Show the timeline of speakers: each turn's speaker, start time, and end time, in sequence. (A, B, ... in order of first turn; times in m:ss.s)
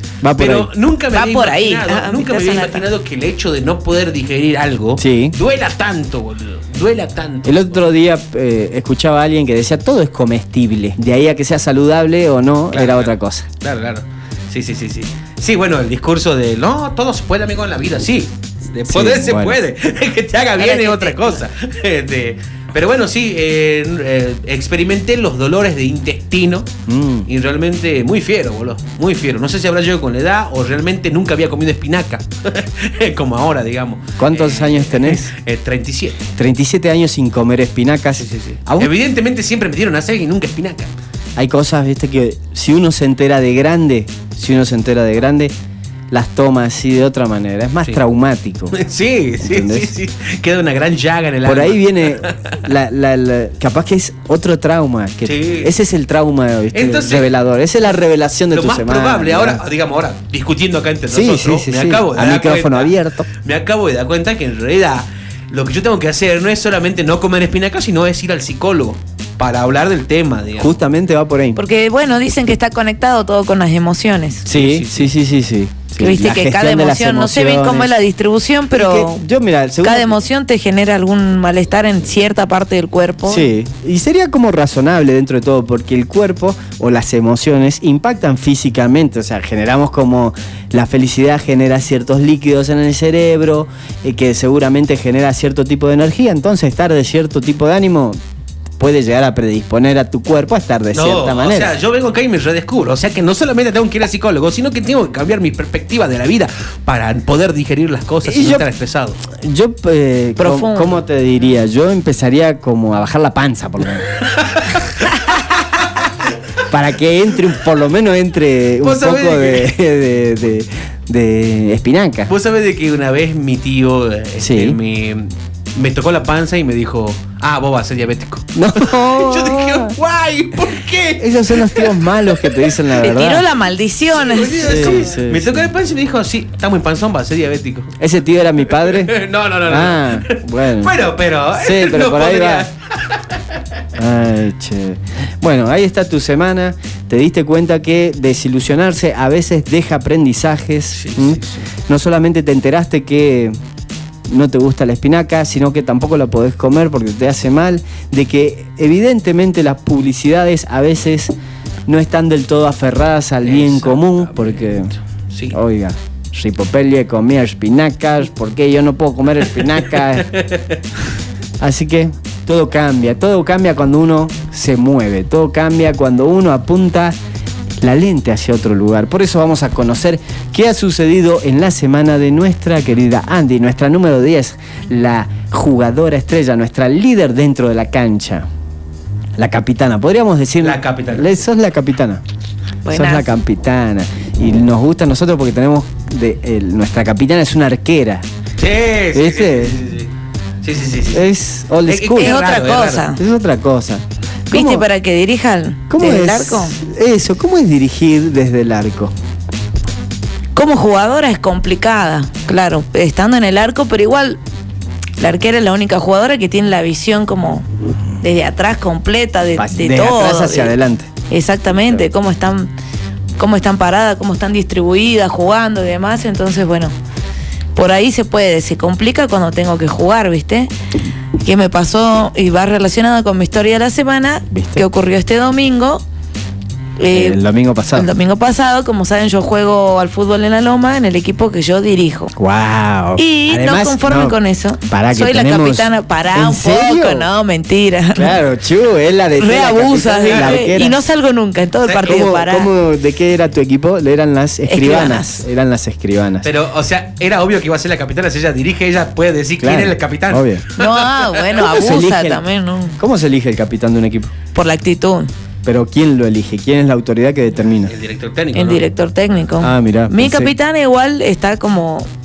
0:00.2-0:00.7 A
0:00.4-0:07.8 B
0:01.1-0:02.8 C
0:05.0-0:05.4 A
0:07.4-0:13.5 A
0:12.7-0:26.7 B
0:18.9-0:19.6 A
0:20.6-0:21.4 C
0:26.9-0:27.3 A
0:27.2-0:36.2 B
0:34.2-0:35.3 A
0:36.4-0:38.9 A
0:38.1-0:40.9 B
0:41.4-0:45.5 A
0:46.1-0:48.8 A
0:48.7-0:52.6 B
0:49.4-0:49.9 A
0:51.4-0:59.6 A
0:55.2-0:55.7 B
0:56.7-0:57.3 B
0:58.5-1:10.7 B
1:01.1-1:03.2 A
1:10.6-1:11.6 A
1:11.6-1:14.4 C
1:14.4-1:18.0 A
1:14.5-1:15.1 B
1:16.0-1:19.2 C
1:18.7-1:20.1 A
1:19.8-1:23.5 C
1:23.2-1:38.2 A
1:38.8-1:41.7 A
1:40.9-1:49.2 B
1:48.2-1:48.7 A
1:49.3-1:54.1 A
1:50.4-1:51.0 C
1:54.3-1:56.1 B
1:56.7-2:02.3 A
1:58.8-1:59.7 B
2:02.3-2:12.8 B
2:04.4-2:04.8 A
2:08.5-2:09.9 A
2:11.2-2:13.4 A
2:13.0-2:15.0 C
2:14.1-2:17.9 B
2:14.6-2:15.7 A
2:18.0-2:21.0 A
2:18.7-2:23.4 B
2:21.6-2:22.7 A
2:24.0-2:33.6 A
2:30.9-2:31.6 B
2:34.3-2:41.3 A
2:41.9-2:44.9 A
2:43.4-2:45.6 B
2:45.5-2:50.3 A
2:50.3-2:50.8 B
2:51.6-2:57.2 A
2:57.8-3:08.5 A
3:09.4-3:12.2 A
3:10.6-3:11.4 B
3:12.8-3:13.3 C
3:12.9-3:18.2 A
3:18.6-3:20.1 B
3:19.1-3:19.8 A
3:20.6-3:21.2 B
3:21.1-3:22.4 A
3:21.8-3:23.1 B
3:22.2-3:23.2 C
3:23.2-3:24.8 A
3:24.5-3:26.8 C
3:25.9-3:29.1 A
3:30.5-3:34.4 C
3:35.2-3:37.7 C
3:38.2-3:40.7 C
3:39.6-3:41.1 A
3:41.3-3:42.7 C
3:43.4-3:46.9 C
3:47.7-3:50.7 C
3:51.4-3:56.0 C
3:54.5-3:54.8 A
3:57.0-3:57.4 C
3:57.1-3:58.1 A
3:57.9-4:02.3 C
4:02.4-4:07.3 A
4:03.2-4:08.4 C
4:08.1-4:11.0 A
4:09.4-4:12.7 C
4:10.3-4:10.6 B
4:12.0-4:16.5 A
4:14.7-4:15.4 C
4:16.4-4:21.6 B
4:19.6-4:20.6 A
4:20.8-4:23.0 C
4:21.6-4:22.4 A
4:23.0-4:24.3 A
4:24.5-4:25.3 C
4:25.6-4:27.9 A
4:27.9-4:28.8 B
4:28.5-4:32.1 C
4:29.6-4:30.5 A